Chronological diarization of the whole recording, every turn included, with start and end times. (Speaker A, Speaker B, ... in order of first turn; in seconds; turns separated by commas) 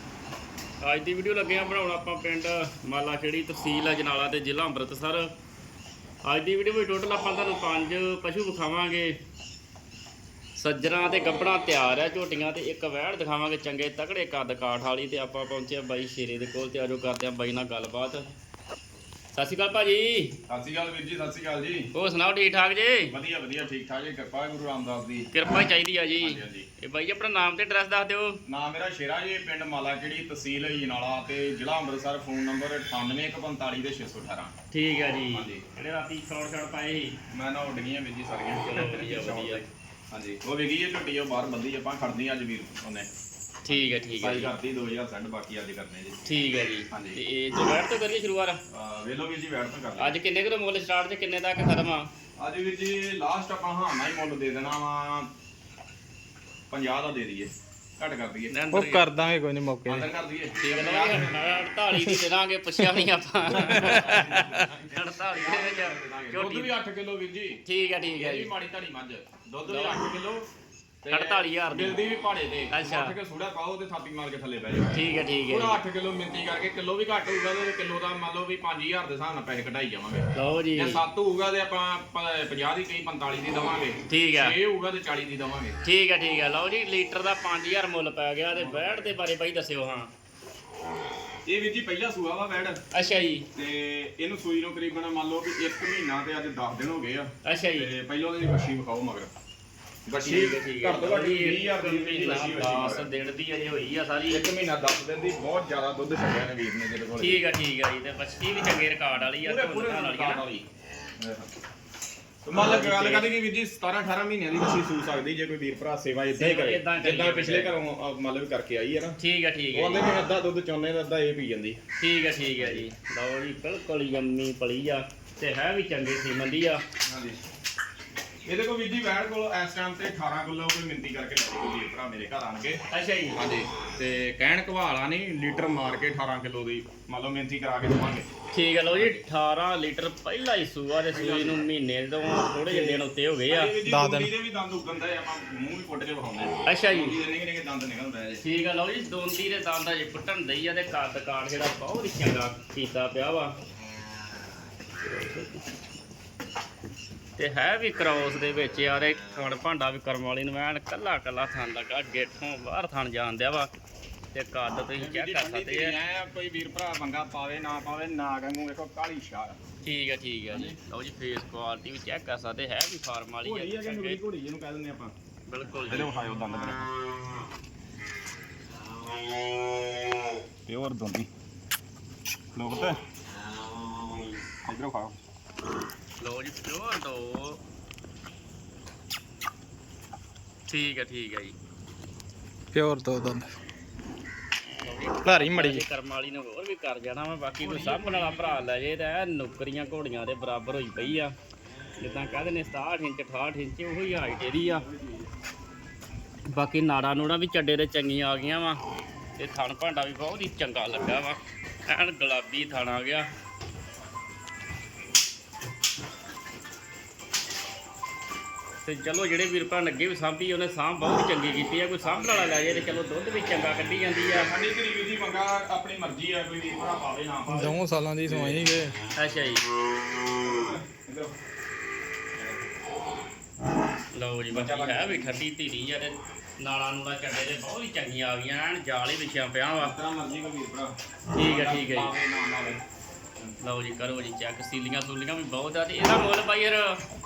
Speaker A: 0.8-5.3, Speaker A: 6.2-9.2, Speaker A: 10.6-18.3, Speaker A: 19.3-20.3, Speaker B: 20.5-21.9, Speaker A: 21.9-23.1, Speaker B: 23.1-25.3, Speaker A: 25.3-28.4, Speaker B: 26.2-26.7, Speaker B: 28.4-34.5, Speaker A: 34.7-37.1, Speaker B: 35.3-35.6, Speaker B: 37.3-43.1, Speaker A: 38.6-39.6, Speaker A: 43.6-44.5, Speaker B: 43.7-46.2, Speaker A: 46.2-48.6, Speaker B: 46.9-47.2, Speaker B: 48.7-50.1, Speaker A: 50.0-52.1, Speaker B: 52.4-55.3, Speaker B: 56.7-58.5, Speaker A: 58.5-59.1, Speaker C: 58.7-60.0, Speaker B: 59.9-61.4, Speaker A: 60.6-66.7, Speaker B: 63.5-67.6, Speaker C: 63.9-64.4, Speaker A: 67.6-68.5, Speaker B: 68.2-70.5, Speaker A: 69.7-70.0, Speaker B: 71.0-85.8, Speaker A: 71.1-72.0, Speaker A: 72.7-73.1, Speaker A: 74.9-75.8, Speaker A: 80.3-81.0, Speaker A: 84.1-84.5, Speaker A: 85.8-90.1, Speaker B: 88.5-89.1, Speaker B: 91.4-92.8, Speaker A: 92.9-93.5, Speaker B: 93.5-99.3, Speaker A: 97.4-97.9, Speaker B: 100.1-103.1, Speaker A: 100.2-104.5, Speaker B: 104.3-107.4, Speaker A: 107.2-110.4, Speaker B: 109.4-110.7, Speaker B: 111.2-111.5, Speaker B: 112.5-119.2, Speaker A: 112.5-113.3, Speaker A: 116.4-117.7, Speaker A: 119.2-120.0, Speaker B: 119.7-121.8, Speaker A: 122.0-126.8, Speaker B: 122.6-122.9, Speaker B: 127.0-127.4, Speaker B: 128.4-132.8, Speaker A: 132.9-133.4, Speaker B: 133.3-138.3, Speaker A: 138.5-143.7, Speaker B: 141.1-141.7, Speaker B: 142.7-148.4, Speaker C: 143.8-144.3, Speaker A: 146.7-147.2, Speaker A: 148.4-153.5, Speaker A: 155.0-155.6, Speaker A: 157.4-163.7, Speaker A: 164.3-165.9, Speaker B: 165.0-169.6, Speaker A: 169.8-174.2, Speaker B: 170.5-170.8, Speaker B: 173.4-175.1, Speaker A: 175.5-176.1, Speaker B: 175.9-176.8, Speaker B: 180.7-181.3, Speaker B: 182.5-183.0, Speaker B: 184.6-185.2, Speaker A: 186.2-187.6, Speaker A: 190.7-191.6, Speaker C: 192.7-193.5, Speaker A: 194.8-201.3, Speaker C: 195.2-195.8, Speaker B: 197.6-198.6, Speaker A: 202.0-204.8, Speaker B: 204.5-205.3, Speaker A: 206.5-208.8, Speaker A: 209.4-213.3, Speaker A: 218.8-224.5, Speaker B: 222.0-223.0, Speaker B: 224.3-228.6, Speaker C: 227.5-228.9, Speaker A: 229.2-229.6, Speaker B: 230.3-231.3, Speaker B: 232.4-232.6, Speaker A: 234.1-239.9, Speaker B: 234.5-235.3, Speaker B: 239.8-242.8, Speaker A: 241.3-242.1, Speaker A: 243.6-247.0